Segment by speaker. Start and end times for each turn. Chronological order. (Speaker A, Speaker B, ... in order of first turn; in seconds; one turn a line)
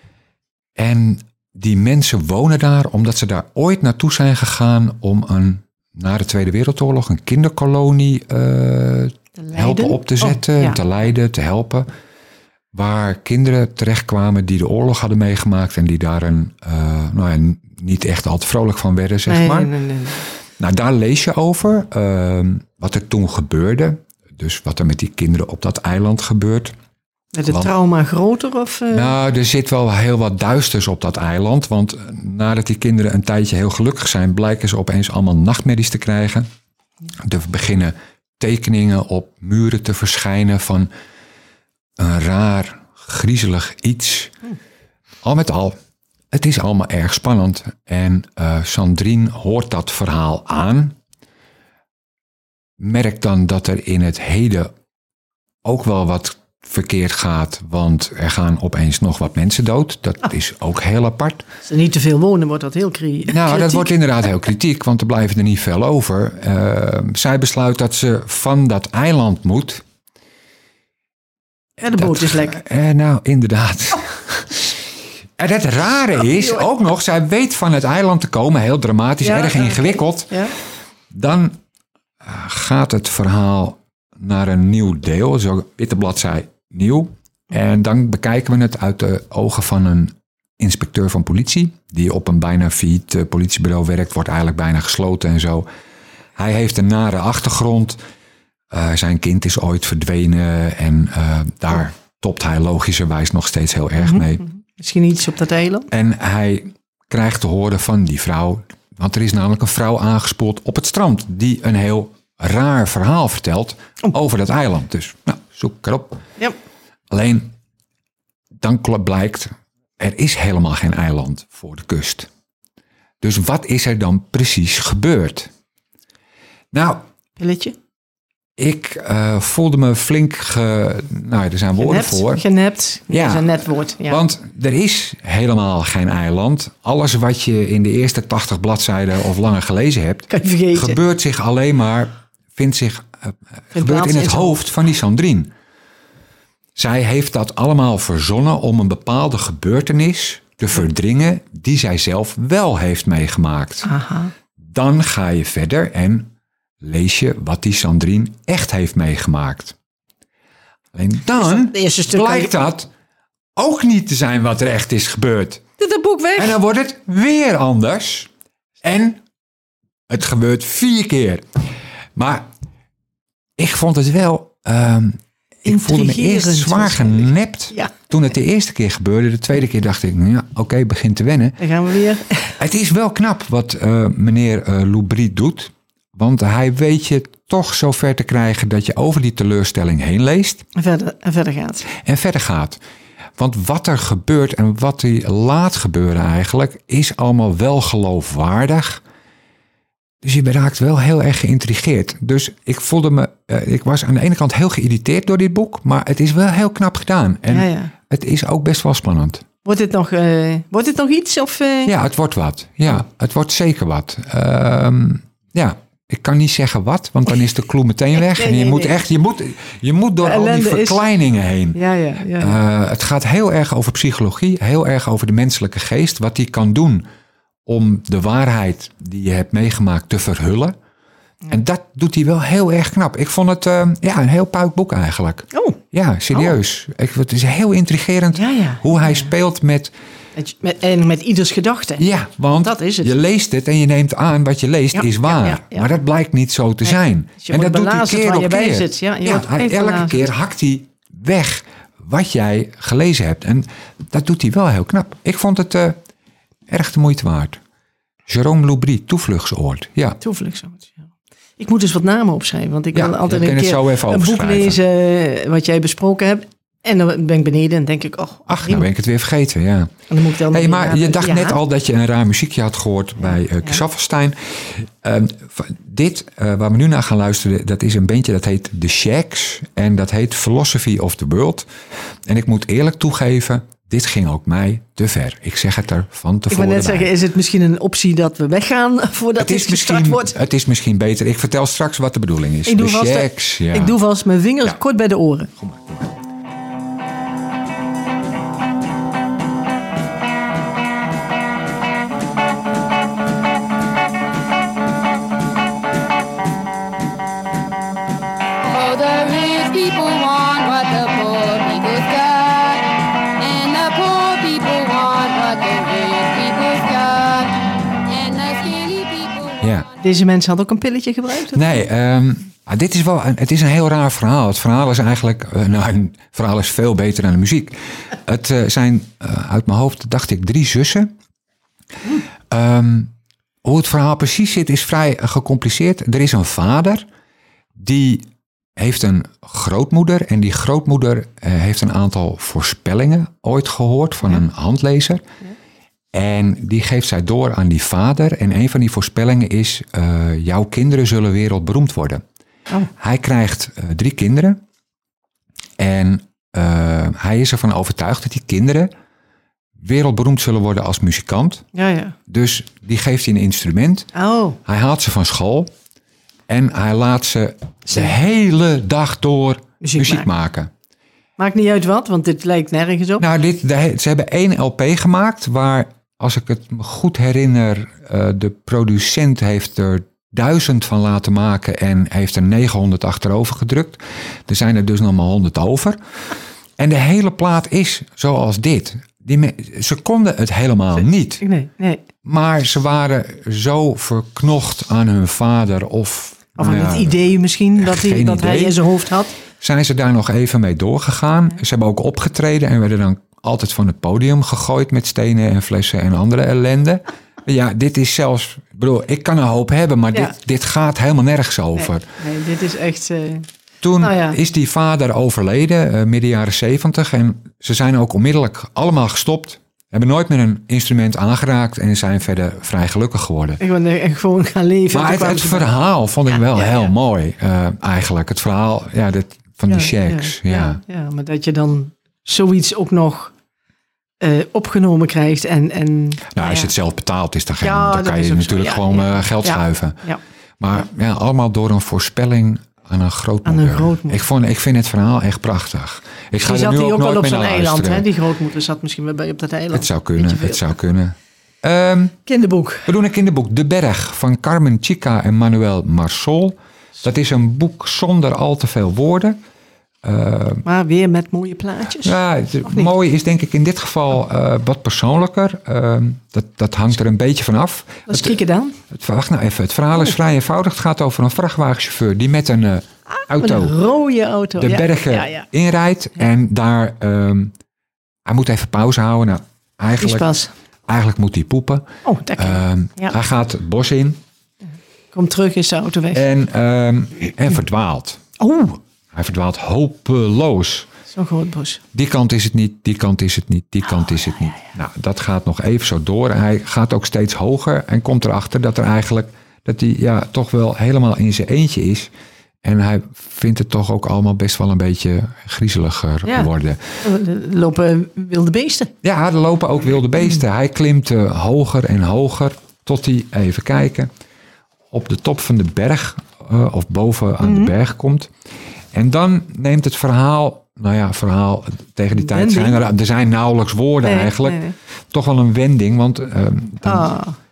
Speaker A: 0.8-11.9
Speaker B: 9.4-10.8
Speaker A: 12.7-19.7
Speaker B: 19.3-20.2
Speaker A: 20.6-26.7
Speaker B: 27.3-29.1
Speaker A: 27.5-27.7
Speaker A: 28.9-36.5
Speaker A: 37.2-40.9
Speaker A: 42.0-44.3
Speaker A: 45.2-45.8
Speaker A: 46.3-51.0
Speaker A: 52.8-54.7
Speaker A: 55.6-61.5
Speaker B: 61.6-64.0
Speaker A: 63.3-69.8
Speaker B: 71.8-72.6
Speaker A: 71.9-74.8
Speaker A: 75.4-80.4
Speaker B: 79.2-80.5
Speaker A: 81.1-81.5
Speaker A: 82.2-95.7
Speaker A: 96.4-98.0
Speaker A: 98.7-104.5
Speaker B: 104.0-105.9
Speaker A: 105.9-116.2
Speaker A: 117.1-117.5
Speaker A: 118.6-122.3
Speaker A: 123.2-125.5
Speaker A: 126.7-127.0
Speaker B: 127.4-127.8
Speaker A: 128.6-132.4
Speaker B: 131.8-134.2
Speaker A: 133.1-145.5
Speaker B: 140.3-141.0
Speaker B: 143.7-144.6
Speaker A: 146.8-153.9
Speaker B: 153.8-154.3
Speaker A: 154.6-156.3
Speaker A: 156.8-159.8
Speaker A: 160.9-162.9
Speaker B: 161.4-162.5
Speaker A: 163.6-165.6
Speaker B: 165.8-166.6
Speaker A: 166.4-168.3
Speaker A: 168.8-169.2
Speaker A: 170.1-171.4
Speaker A: 172.2-172.5
Speaker A: 173.6-181.6
Speaker B: 175.7-177.9
Speaker B: 181.6-182.6
Speaker A: 182.6-190.6
Speaker B: 190.8-191.9
Speaker A: 192.0-192.8
Speaker A: 193.4-199.0
Speaker A: 200.2-209.4
Speaker B: 207.5-207.9
Speaker B: 209.6-211.9
Speaker A: 211.9-221.8
Speaker B: 218.2-219.0
Speaker B: 220.2-221.0
Speaker B: 221.8-222.6
Speaker A: 222.4-227.0
Speaker A: 227.7-230.7
Speaker A: 231.5-239.9
Speaker B: 235.5-235.8
Speaker B: 238.3-239.3
Speaker B: 240.4-242.1
Speaker A: 242.0-256.0
Speaker B: 242.6-243.1
Speaker B: 244.9-245.9
Speaker B: 247.4-250.2
Speaker A: 256.7-257.6
Speaker A: 258.3-260.2
Speaker B: 260.2-261.1
Speaker B: 261.6-268.9
Speaker A: 262.9-264.8
Speaker A: 268.5-269.9
Speaker B: 270.1-271.6
Speaker A: 270.5-281.7
Speaker A: 282.3-287.1
Speaker B: 286.5-290.4
Speaker A: 289.4-294.0
Speaker B: 292.7-295.5
Speaker A: 295.6-296.1
Speaker C: 308.7-312.9
Speaker C: 313.4-317.5
Speaker C: 318.1-319.5
Speaker A: 319.6-319.9
Speaker B: 320.0-321.8
Speaker A: 321.5-331.1
Speaker A: 332.5-333.1
Speaker A: 333.6-337.1
Speaker A: 337.8-338.2
Speaker A: 338.8-345.2
Speaker A: 346.1-352.2
Speaker A: 353.0-354.6
Speaker A: 355.8-358.9
Speaker A: 359.8-361.6
Speaker B: 361.7-362.2
Speaker A: 362.3-364.1
Speaker B: 364.1-364.6
Speaker A: 364.7-365.7
Speaker A: 366.5-370.7
Speaker B: 369.8-370.3
Speaker B: 371.4-373.3
Speaker A: 373.2-386.0
Speaker A: 386.8-391.4
Speaker B: 391.4-392.0
Speaker A: 392.2-397.2
Speaker B: 396.6-399.3
Speaker A: 397.8-398.8
Speaker A: 399.6-412.1
Speaker B: 411.8-413.5
Speaker A: 413.8-423.6
Speaker B: 414.0-414.4
Speaker B: 423.6-425.8
Speaker A: 424.9-430.8
Speaker B: 426.3-426.9
Speaker B: 429.7-433.3
Speaker B: 434.2-436.7
Speaker A: 436.3-440.0
Speaker B: 437.6-440.2
Speaker A: 440.6-448.1
Speaker B: 443.4-444.2
Speaker B: 446.4-450.7
Speaker A: 449.7-452.2
Speaker B: 452.3-452.9
Speaker A: 452.9-459.4
Speaker A: 460.0-460.6
Speaker B: 460.6-462.9
Speaker A: 462.0-468.4
Speaker B: 468.1-468.8
Speaker A: 468.9-473.8
Speaker B: 473.1-475.5
Speaker A: 474.6-477.5
Speaker A: 478.3-480.4
Speaker B: 480.0-480.5
Speaker A: 480.9-484.2
Speaker B: 482.0-483.1
Speaker B: 485.1-486.2
Speaker A: 486.1-488.2
Speaker B: 488.4-488.8
Speaker A: 489.1-490.9
Speaker B: 491.1-491.8
Speaker A: 491.9-502.1
Speaker A: 502.6-506.8
Speaker B: 506.2-506.5
Speaker B: 507.0-508.9
Speaker A: 509.0-514.1
Speaker A: 514.9-518.3
Speaker B: 517.4-517.7
Speaker A: 518.9-527.2
Speaker B: 522.2-522.9
Speaker B: 524.0-524.8
Speaker B: 526.8-527.4